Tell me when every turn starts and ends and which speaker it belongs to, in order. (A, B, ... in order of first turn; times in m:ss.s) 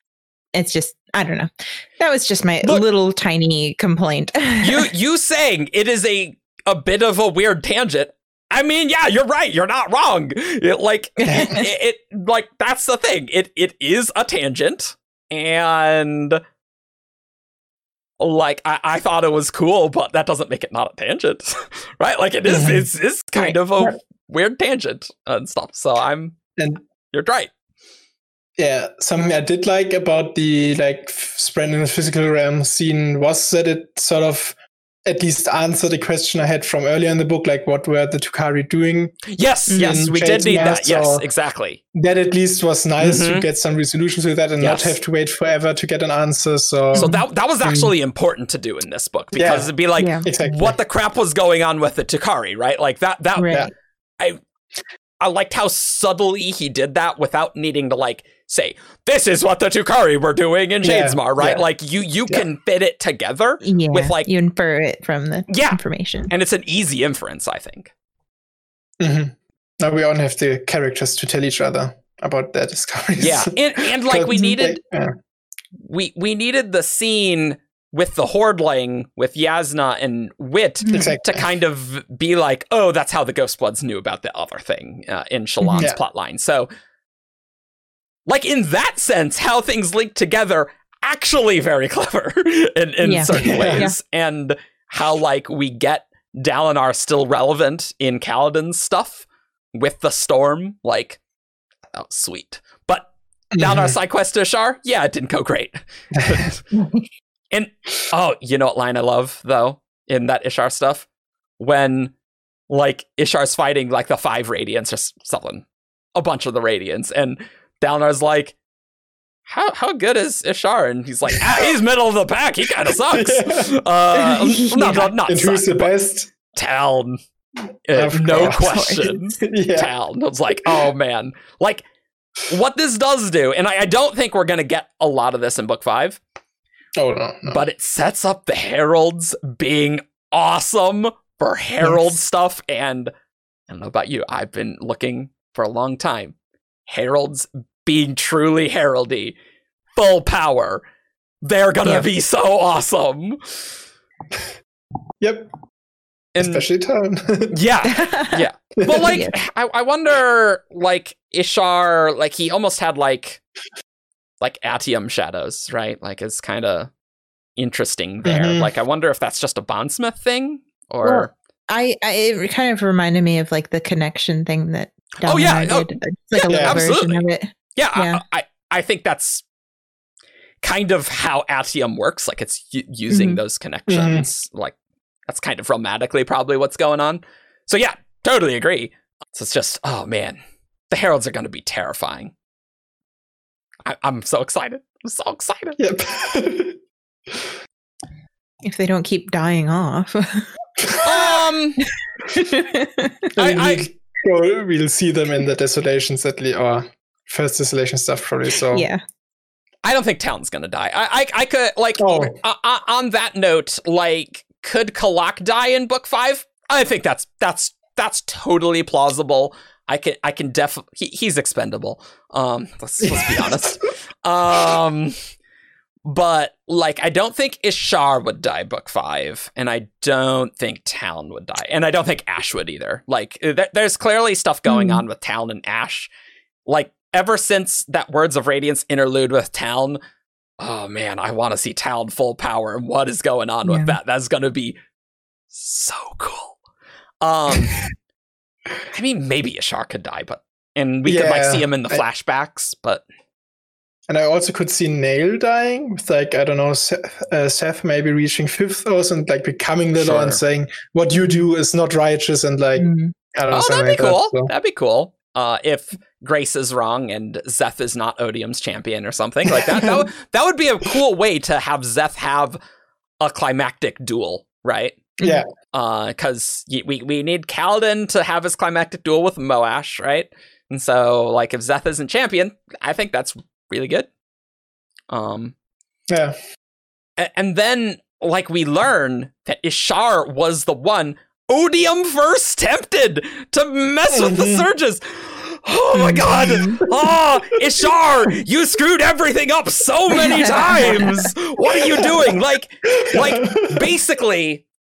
0:00.5-0:04.8 A
0:04.6-0:16.4 B
0:11.2-0:11.7 A
0:11.3-0:11.6 C
0:18.2-0:26.4 B
0:22.4-0:22.9 C
0:23.4-0:24.0 A
0:27.1-0:27.5 B
0:28.6-0:39.2 C
0:39.3-0:41.8 B
0:39.7-0:40.0 A
0:39.8-0:41.2 C
0:41.9-0:47.1 C
0:43.0-0:43.5 B
0:44.6-0:44.9 B
0:46.9-0:47.2 A
0:46.9-0:53.6 B
0:49.3-0:49.7 C
0:50.0-0:50.3 A
0:50.2-0:50.8 C
0:53.4-0:53.7 A
0:55.2-1:04.3 B
1:00.8-1:01.6 C
1:03.6-1:06.3 A
1:05.5-1:07.9 B
1:09.0-1:15.1 C
1:13.2-1:14.8 B
1:15.8-1:26.7 B
1:20.8-1:21.1 A
1:20.9-1:21.5 C
1:25.6-1:25.9 A
1:28.3-1:41.2 B
1:33.0-1:34.0 A
1:33.3-1:33.9 C
1:41.9-1:46.7 B
1:43.5-1:44.0 C
1:46.2-1:46.4 C
1:46.7-1:47.1 A
1:47.5-1:51.0 B
1:51.6-1:52.1 B
1:52.7-1:55.6 B
1:56.2-1:58.6 B
1:59.5-2:05.9 B
2:01.3-2:01.7 C
2:02.7-2:03.8 C
2:04.1-2:05.1 A
2:05.2-2:06.3 C
2:06.5-2:07.2 B
2:07.9-2:11.8 B
2:07.9-2:08.8 C
2:08.3-2:09.1 A
2:09.4-2:09.9 C
2:10.5-2:10.9 C
2:12.4-2:16.2 B
2:17.0-2:17.6 C
2:17.5-2:23.1 B
2:23.7-2:26.3 B
2:26.9-2:29.3 B
2:29.9-2:30.8 B
2:31.4-2:33.7 B
2:35.2-2:35.5 C
2:36.4-2:36.6 B
2:36.4-2:37.5 C
2:37.5-2:43.4 B
2:37.8-2:38.4 A
2:38.8-2:39.2 C
2:39.0-2:39.4 A
2:44.4-2:46.9 B
2:47.6-2:51.3 B
2:48.2-2:48.7 C
2:51.0-2:58.2 A
2:55.2-2:57.2 B
2:56.5-2:56.9 C
2:57.8-2:59.4 B
3:00.6-3:04.7 B
3:03.1-3:03.4 A
3:03.9-3:04.3 C
3:05.3-3:10.4 B
3:10.9-3:12.3 B
3:13.8-3:15.8 B
3:15.8-3:16.8 C
3:18.6-3:20.5 A
3:20.8-3:21.3 C
3:21.0-3:21.8 B
3:22.3-3:23.3 A
3:23.4-3:23.9 B
3:23.4-3:28.9 C
3:28.7-3:29.0 A
3:29.8-3:45.1 B
3:32.0-3:32.3 C
3:43.0-3:43.7 C
3:46.0-3:56.1 B
3:54.7-3:55.0 A
3:56.7-4:00.0 B
4:00.6-4:04.8 B
4:03.6-4:03.9 A
4:05.5-4:06.6 B
4:07.2-4:07.9 B
4:08.9-4:13.0 B
4:11.0-4:12.0 C
4:14.1-4:24.5 C
4:20.0-4:20.4 B
4:22.8-4:23.1 A
4:23.5-4:32.6 B
4:29.5-4:30.0 C
4:33.2-4:35.2 B
4:35.2-4:35.5 C
4:35.7-4:44.1 B
4:45.1-4:45.5 B
4:46.1-4:46.4 C
4:47.2-5:04.6 B
4:54.1-4:54.7 C
4:55.9-4:56.8 A
4:56.2-4:57.0 C
5:00.1-5:01.3 A
5:01.7-5:02.1 C
5:03.0-5:03.8 C